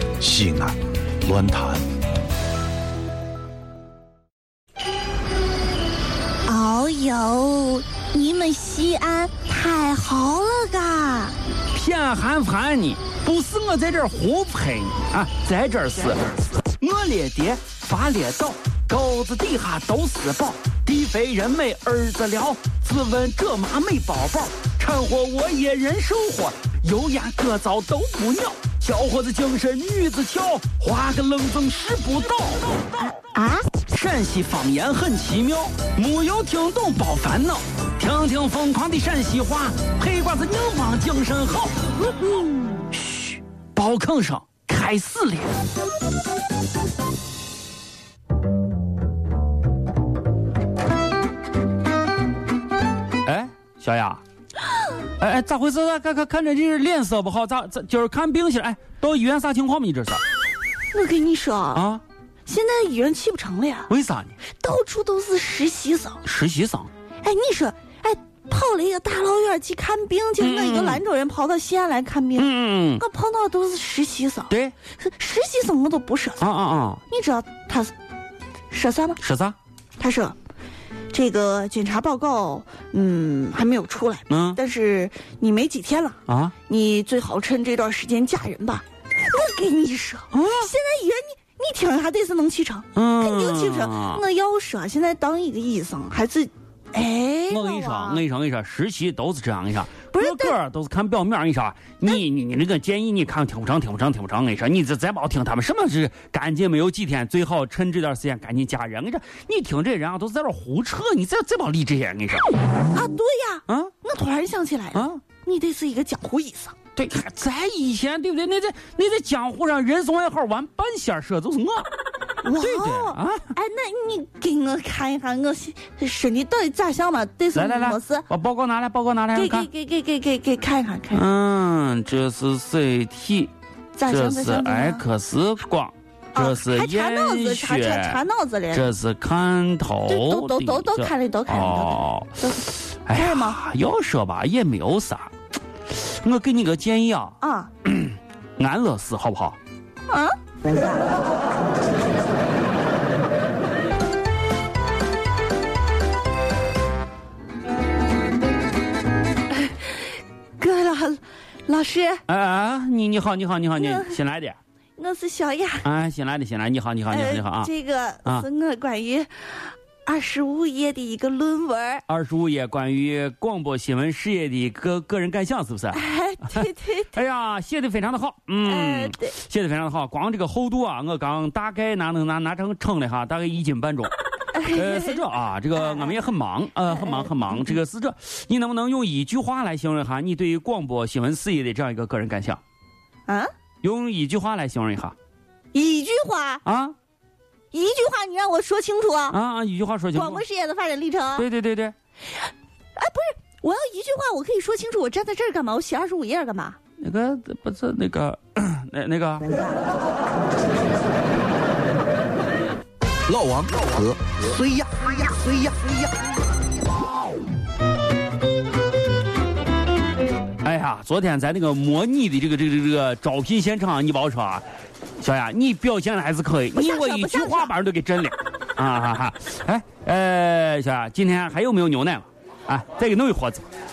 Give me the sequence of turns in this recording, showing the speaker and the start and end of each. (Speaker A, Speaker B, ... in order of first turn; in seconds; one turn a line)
Speaker A: 0.2-1.9
Speaker B: 6.5-11.3
Speaker C: 11.7-33.1
Speaker B: 33.2-33.7
Speaker C: 33.9-41.8
Speaker B: 42.2-42.9
Speaker C: 43.0-45.6
Speaker C: 53.2-54.2
Speaker C: 55.2-60.2
Speaker B: 60.9-61.8
Speaker C: 61.7-62.0
Speaker B: 62.5-63.9
Speaker C: 63.9-64.3
Speaker B: 64.5-66.2
Speaker C: 66.2-66.9
Speaker B: 67.2-76.5
Speaker C: 70.4-71.0
Speaker C: 72.4-73.0
Speaker C: 76.4-77.0
Speaker B: 77.1-77.9
Speaker B: 78.7-79.2
Speaker C: 79.2-79.5
Speaker B: 80.0-80.3
Speaker B: 81.1-98.2
Speaker C: 84.3-84.6
Speaker C: 86.3-86.5
Speaker C: 90.3-90.7
Speaker C: 93.0-94.2
Speaker C: 97.5-112.5
Speaker B: 100.1-100.5
Speaker B: 112.9-116.7
Speaker C: 114.9-115.2
Speaker C: 117.0-121.9
Speaker B: 122.4-128.3
Speaker C: 122.6-123.5
Speaker C: 127.5-129.7
Speaker B: 129.3-131.2
Speaker C: 131.1-133.5
Speaker B: 133.9-135.0
Speaker C: 134.1-138.2
Speaker B: 136.3-138.9
Speaker C: 138.7-145.3
Speaker B: 140.1-143.6
Speaker C: 145.9-149.6
Speaker B: 147.4-147.7
Speaker B: 150.1-150.3
Speaker B: 160.6-162.2
Speaker C: 162.3-164.6
Speaker B: 163.8-164.2
Speaker B: 165.0-165.8
Speaker C: 165.8-167.7
Speaker B: 167.1-172.0
Speaker C: 172.1-192.6
Speaker B: 175.9-177.1
Speaker B: 178.6-179.3
Speaker B: 184.5-185.2
Speaker B: 185.7-186.2
Speaker C: 193.8-195.1
Speaker B: 195.7-196.6
Speaker C: 196.6-196.9
Speaker B: 197.7-199.4
Speaker C: 199.3-200.4
Speaker B: 200.1-201.4
Speaker C: 201.3-201.9
Speaker B: 202.9-206.8
Speaker C: 207.0-209.6
Speaker A: 213.3-216.0
Speaker C: 220.6-224.6
Speaker C: 225.2-233.6
Speaker B: 226.7-227.7